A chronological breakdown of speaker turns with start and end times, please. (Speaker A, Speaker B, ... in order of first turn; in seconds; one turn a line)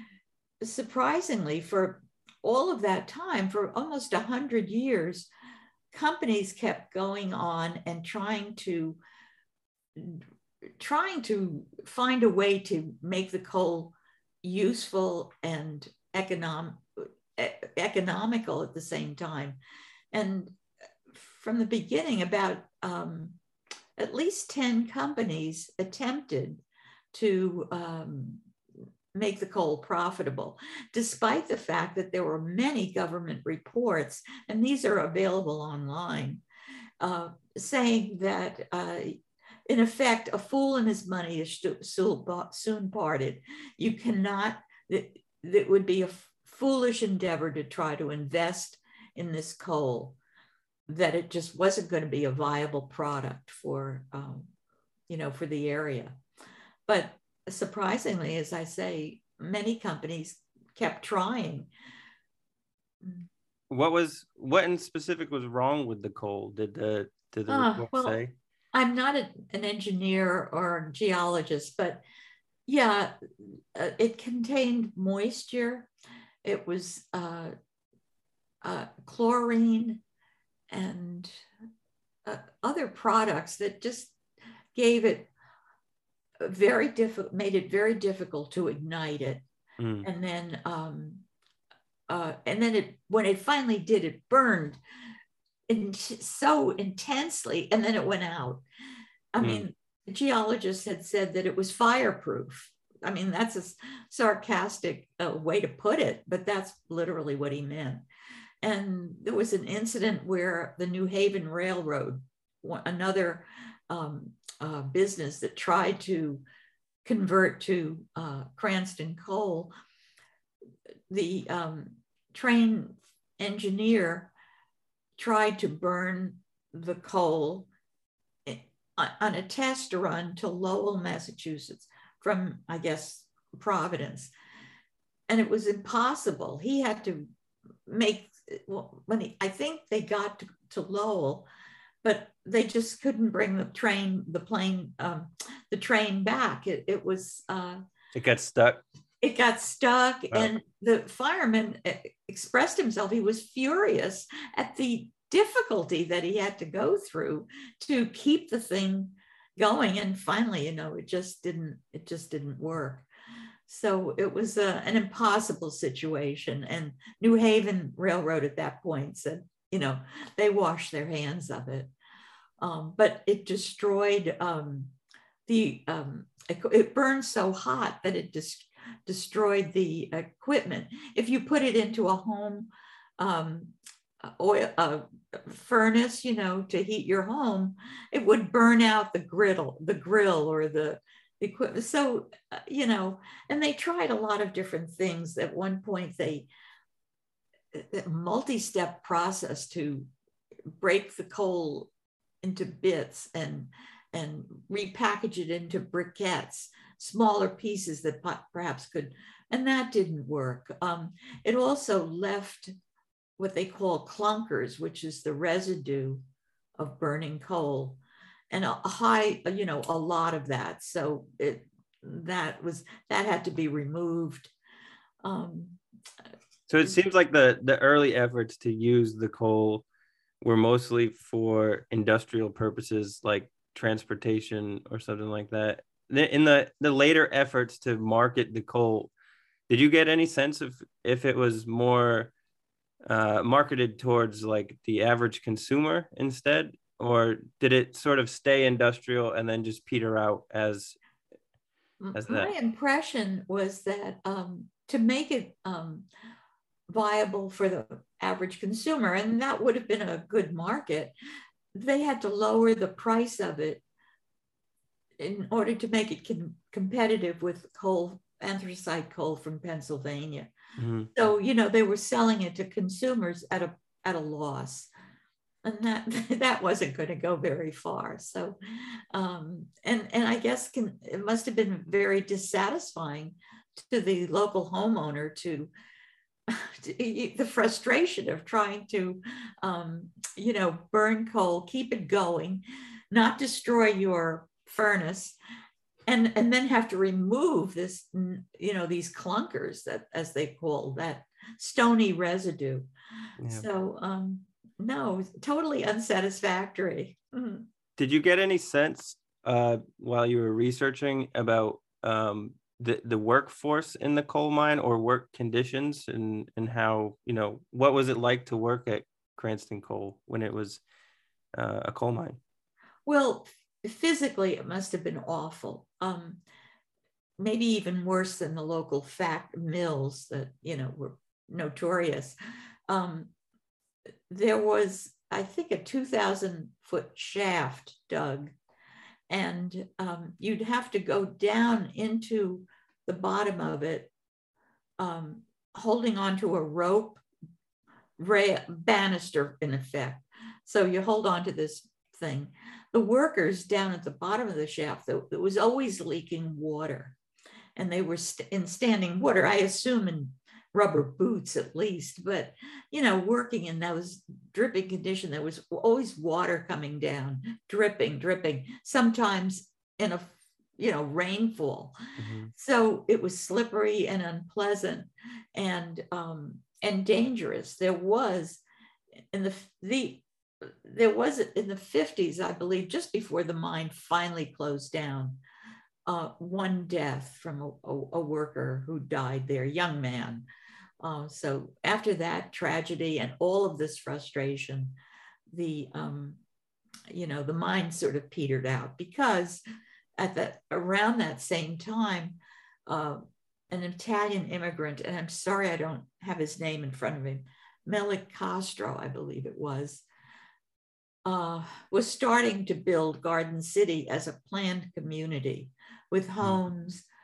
Speaker A: 0.6-5.3
Speaker A: 5.9-9.0
Speaker A: 9.9-10.2
Speaker A: 10.8-19.6
Speaker A: 20.1-20.6
Speaker A: 21.1-23.4
Speaker A: 24.0-28.4
Speaker A: 29.1-36.4
Speaker A: 37.0-50.2
Speaker A: 50.9-54.5
Speaker A: 55.1-56.2
Speaker A: 56.9-61.7
Speaker B: 63.7-68.3
Speaker A: 67.5-68.2
Speaker A: 68.7-72.0
Speaker A: 72.7-75.9
Speaker A: 76.4-77.5
Speaker A: 78.6-80.0
Speaker A: 80.7-81.4
Speaker A: 82.2-84.2
Speaker A: 84.7-85.3
Speaker A: 86.4-89.4
Speaker B: 89.8-90.1
Speaker A: 90.0-91.2
Speaker A: 92.1-94.8
Speaker A: 95.7-98.6
Speaker A: 99.3-108.0
Speaker B: 99.4-99.7
Speaker A: 108.6-116.4
Speaker A: 117.0-119.7
Speaker A: 121.1-124.3
Speaker A: 125.2-127.7
Speaker A: 128.4-134.3
Speaker A: 135.3-137.3
Speaker A: 137.9-141.5
Speaker A: 142.0-147.8
Speaker B: 148.1-148.8
Speaker A: 149.2-163.1
Speaker A: 163.7-171.9
Speaker A: 172.6-174.9
Speaker A: 175.5-196.5
Speaker A: 197.7-200.1
Speaker A: 200.8-201.9
Speaker A: 202.4-212.7
Speaker A: 213.4-216.2
Speaker A: 216.8-224.5
Speaker A: 225.2-225.8
Speaker B: 226.7-229.8
Speaker B: 230.4-239.1
Speaker B: 239.7-242.3
Speaker B: 243.1-251.0
Speaker A: 252.0-256.1
Speaker B: 252.1-252.5
Speaker A: 256.9-261.1
Speaker A: 261.7-263.8
Speaker A: 265.2-270.5
Speaker B: 270.8-271.1
Speaker A: 271.1-274.9
Speaker A: 275.6-285.7
Speaker A: 286.5-295.4
Speaker A: 296.1-302.9
Speaker B: 303.4-303.7
Speaker A: 303.5-307.6
Speaker B: 308.0-320.8
Speaker B: 321.6-322.4
Speaker A: 323.1-326.4
Speaker A: 327.4-332.4
Speaker A: 332.9-333.3
Speaker A: 334.3-338.5
Speaker A: 339.3-344.1
Speaker A: 345.0-347.2
Speaker A: 348.2-357.1
Speaker A: 357.8-371.9
Speaker B: 372.2-372.5
Speaker A: 372.5-378.6
Speaker A: 379.3-385.4
Speaker A: 386.1-390.4
Speaker A: 391.0-394.9
Speaker A: 395.5-396.4
Speaker A: 397.1-399.6
Speaker A: 400.2-410.1
Speaker A: 411.2-417.0